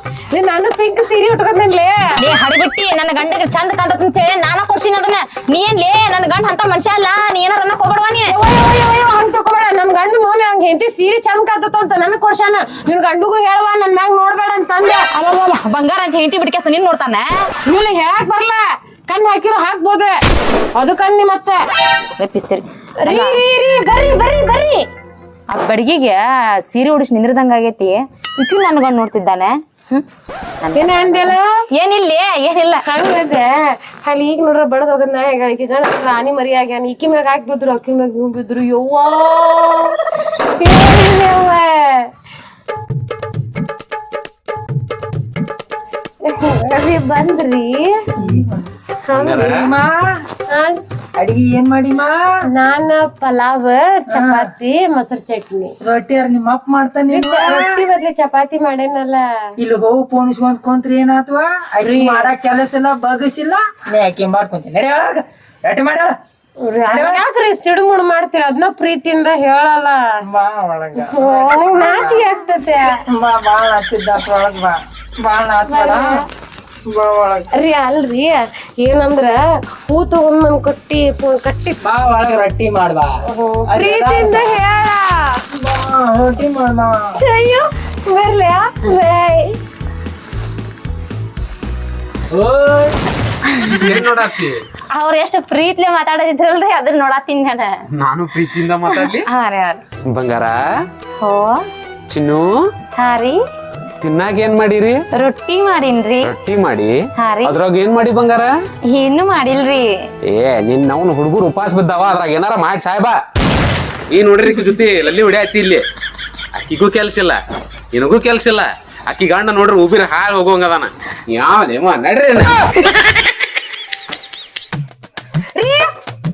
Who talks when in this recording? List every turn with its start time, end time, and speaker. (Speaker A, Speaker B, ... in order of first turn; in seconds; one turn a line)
Speaker A: 0.3-2.2
Speaker B: 2.2-8.4
Speaker A: 8.3-15.0
Speaker B: 15.1-17.5
Speaker A: 17.6-20.2
Speaker A: 20.8-21.6
Speaker B: 22.2-23.4
Speaker A: 23.0-24.8
Speaker B: 25.5-30.0
Speaker B: 30.6-32.8
Speaker A: 30.8-31.4
Speaker A: 32.9-40.0
Speaker A: 40.6-42.1
Speaker A: 46.2-48.1
Speaker C: 48.2-48.7
Speaker A: 49.1-49.5
Speaker D: 49.1-49.7
Speaker C: 49.3-50.2
Speaker A: 50.5-50.8
Speaker C: 51.2-52.5
Speaker A: 52.5-55.7
Speaker C: 54.1-54.5
Speaker C: 55.8-57.8
Speaker A: 57.1-59.3
Speaker C: 59.6-66.2
Speaker A: 61.8-62.3
Speaker A: 66.6-70.0
Speaker C: 66.9-67.2
Speaker C: 70.2-72.2
Speaker A: 71.0-72.9
Speaker C: 73.1-76.2
Speaker A: 75.7-76.3
Speaker C: 76.9-77.5
Speaker A: 77.5-79.4
Speaker A: 79.9-81.8
Speaker C: 81.8-83.2
Speaker A: 83.3-85.4
Speaker C: 83.7-84.6
Speaker C: 85.5-87.2
Speaker A: 87.2-89.6
Speaker D: 92.3-93.0
Speaker B: 93.5-93.8
Speaker D: 93.6-94.6
Speaker B: 94.9-97.8
Speaker D: 97.9-99.3
Speaker B: 98.9-99.8
Speaker D: 100.1-100.6
Speaker B: 101.2-101.6
Speaker D: 102.1-102.5
Speaker B: 103.0-103.4
Speaker D: 104.0-105.0
Speaker B: 105.1-106.3
Speaker D: 106.2-108.5
Speaker B: 107.2-107.6
Speaker B: 108.9-109.9
Speaker D: 110.3-113.2
Speaker D: 114.1-115.8
Speaker D: 116.5-117.4
Speaker D: 117.9-122.5
Speaker A: 125.5-125.9